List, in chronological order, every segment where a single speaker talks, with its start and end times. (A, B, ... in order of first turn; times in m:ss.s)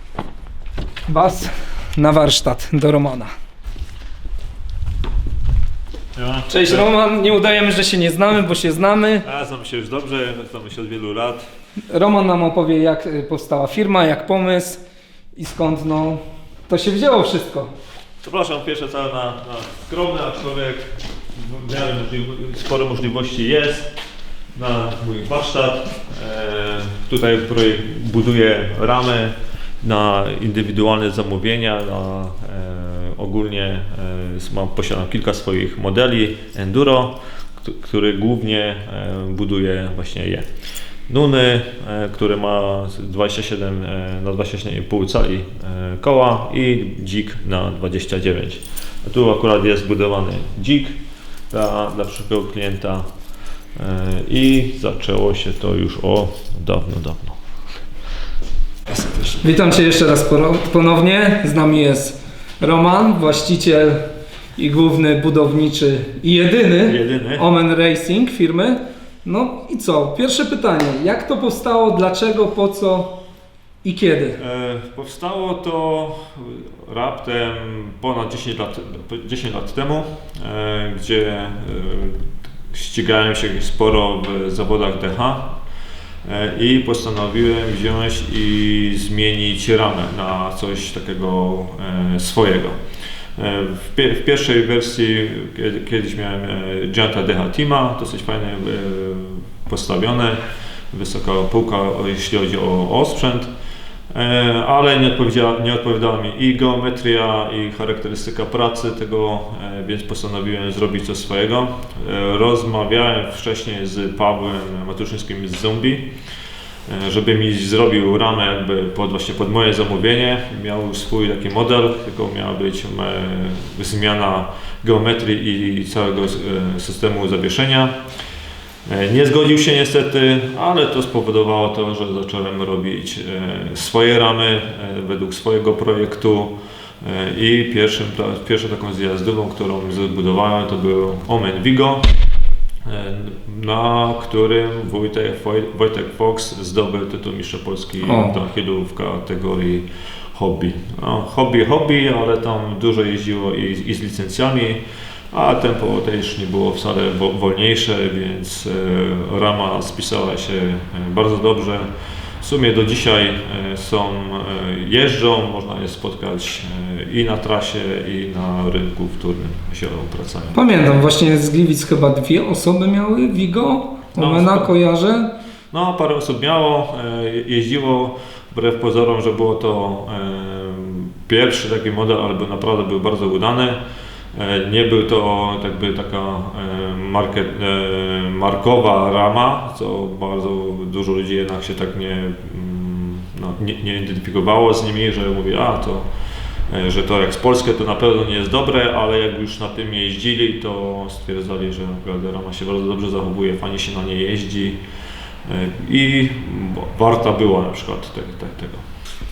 0:01.1-0:03.3 A
0:06.2-0:06.9 B
0:06.5-0:09.2 A
0:09.2-0:11.4 B
0:11.9-0:14.8 A
0:15.4-0:17.7 A
0:18.2-0:23.9 B
0:24.6-0:40.5 B
0:41.1-0:51.0 B
0:51.5-0:53.1 B
0:53.8-0:57.4 B
0:59.2-1:04.1 A
1:04.6-1:13.2 A
1:06.8-1:07.5 B
1:13.8-1:14.4 A
1:14.4-1:25.6 B
1:26.2-1:32.8 B
1:33.4-1:43.5 B
1:44.1-1:56.1 B
1:56.9-2:08.0 B
2:08.9-2:22.1 B
2:22.8-2:41.9 B
2:28.0-2:28.4 A
2:42.4-2:50.6 B
2:50.5-2:55.3 A
2:54.2-2:54.7 B
2:55.7-3:03.8 B
3:04.3-3:16.1 B
3:16.7-3:24.8 B
3:25.4-3:28.8 B